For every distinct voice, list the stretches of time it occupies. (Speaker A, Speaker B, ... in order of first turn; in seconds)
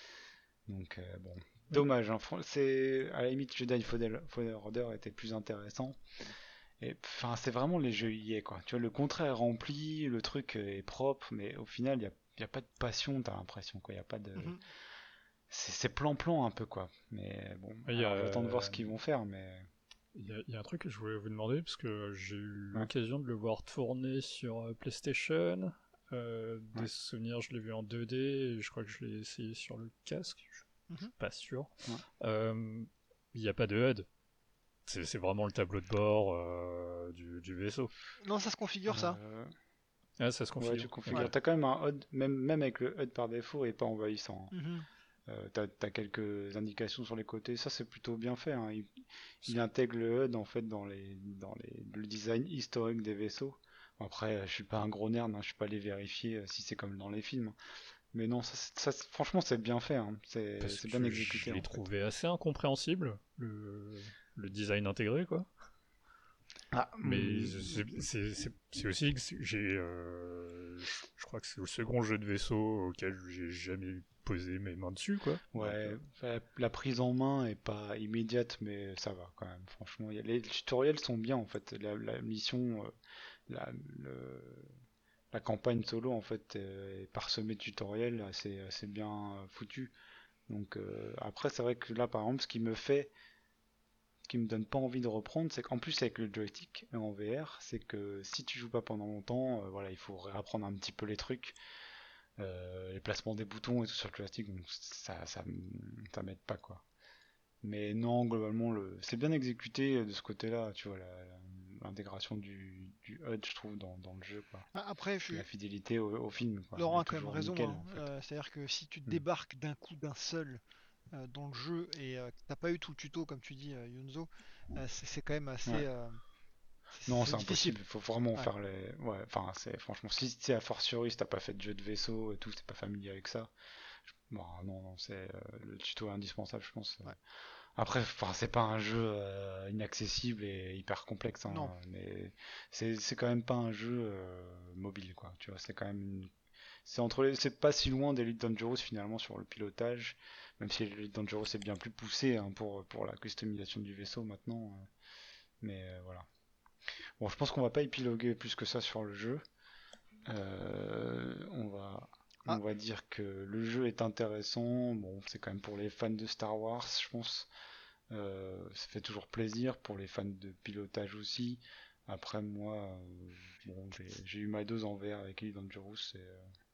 Speaker A: 0.7-6.0, 6.8-14.6, 15.5-19.7, 38.9-39.5, 40.6-44.5, 45.3-57.6, 58.1-61.8, 66.7-68.0, 75.5-82.9, 83.5-84.7, 85.3-89.9, 90.5-93.1, 94.3-101.5, 102.4-106.8, 107.6-114.7, 115.3-118.0, 127.0-133.5, 134.1-137.2, 137.8-146.3, 146.8-154.9, 155.6-156.3, 157.2-159.4, 160.2-167.5, 168.1-176.5
Speaker B: 14.4-14.6, 38.2-39.2, 44.5-44.9, 114.7-115.5, 116.7-126.2, 126.9-127.8, 141.5-141.7
Speaker C: 17.9-18.9, 20.1-30.6, 31.2-34.0, 34.9-37.9, 40.2-41.3, 60.6-65.5, 67.0-76.0